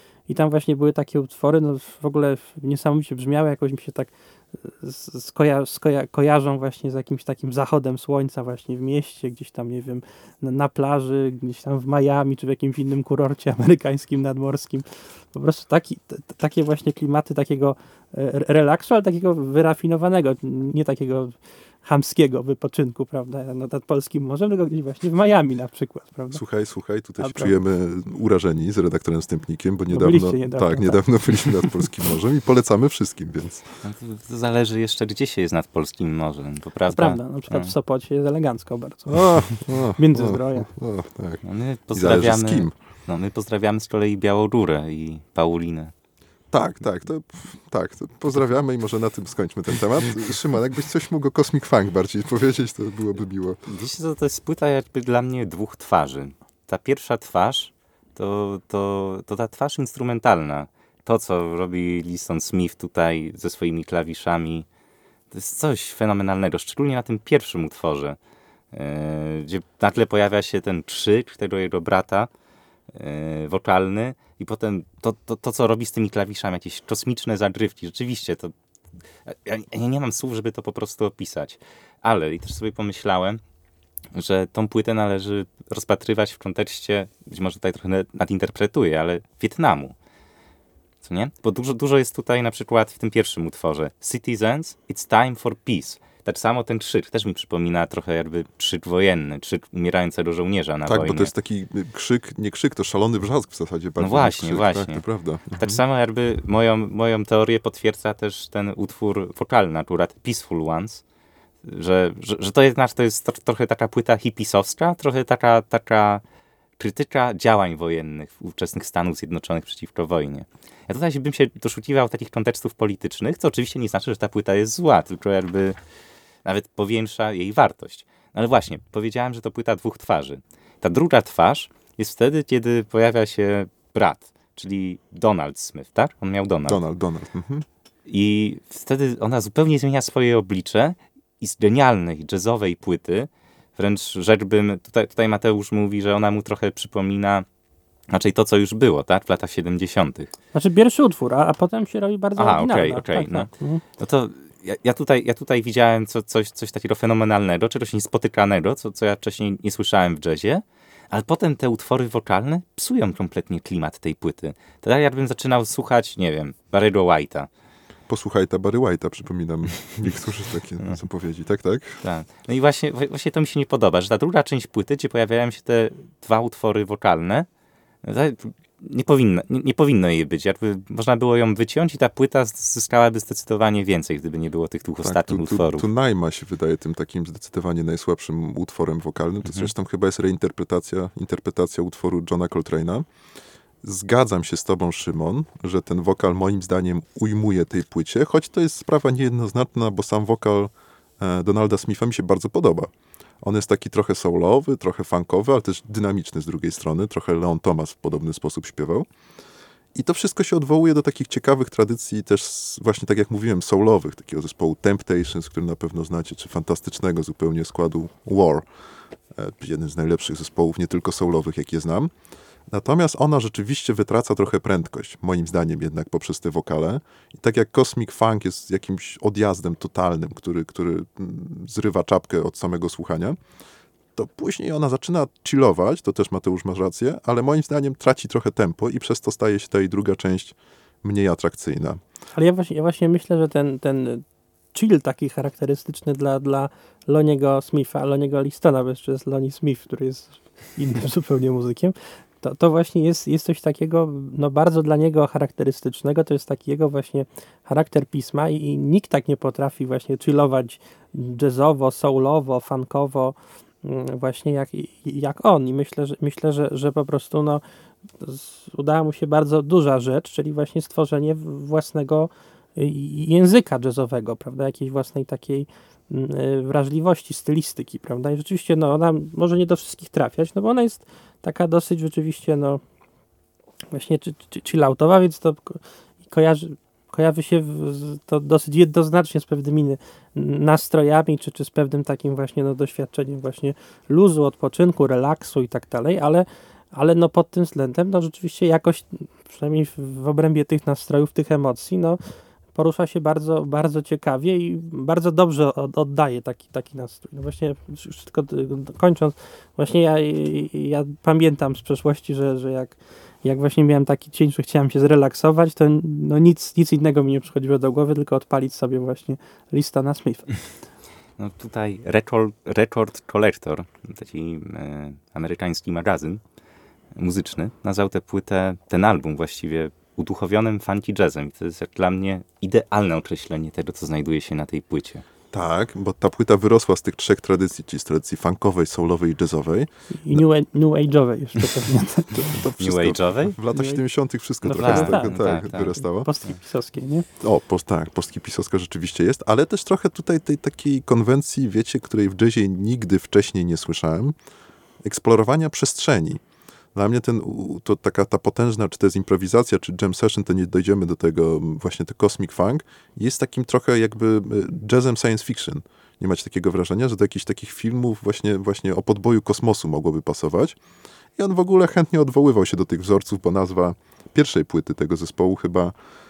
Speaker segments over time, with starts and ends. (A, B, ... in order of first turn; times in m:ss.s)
0:00.3-0:26.4 A
0:26.3-0:33.6 B
0:27.2-0:27.5 A
0:29.9-0:31.0 A
0:33.8-0:37.7 C
0:36.9-0:40.7 A
0:39.1-0:42.7 B
0:41.4-0:45.9 C
0:46.5-0:53.6 B
0:53.6-1:04.6 C
1:05.3-1:08.2 C
1:08.7-1:12.3 C
1:12.9-1:18.5 C
1:19.2-1:23.4 C
1:24.1-1:29.9 C
1:31.0-1:41.3 C
1:40.9-1:45.8 B
1:44.0-1:51.0 C
1:51.6-1:56.2 C
1:56.8-2:05.8 C
2:06.4-2:16.8 C
2:16.6-2:17.6 B
2:18.0-2:27.4 C
2:28.1-2:30.3 C
2:30.5-2:33.8 A
2:32.4-2:47.5 C
2:48.1-2:52.0 B
2:52.0-2:57.5 C
2:58.0-3:05.9 C
3:05.0-3:13.1 B
3:13.8-3:29.0 B
3:29.9-3:38.6 B
3:39.3-3:42.1 B
3:42.7-3:53.4 B
3:54.2-4:02.0 B
4:02.4-4:27.6 A
4:28.2-4:42.8 A
4:43.9-5:02.2 A
5:02.7-5:20.6 A
5:21.4-5:26.4 C
5:27.1-5:35.2 C
5:35.5-5:40.4 B
5:40.1-5:42.4 A
5:42.3-5:46.3 B
5:42.8-5:43.6 C
5:43.7-5:44.0 A
5:44.6-5:47.2 A
5:44.8-5:46.0 C
5:47.4-5:54.3 B
5:55.0-5:56.4 B
5:56.9-6:10.8 B
6:11.4-6:15.9 B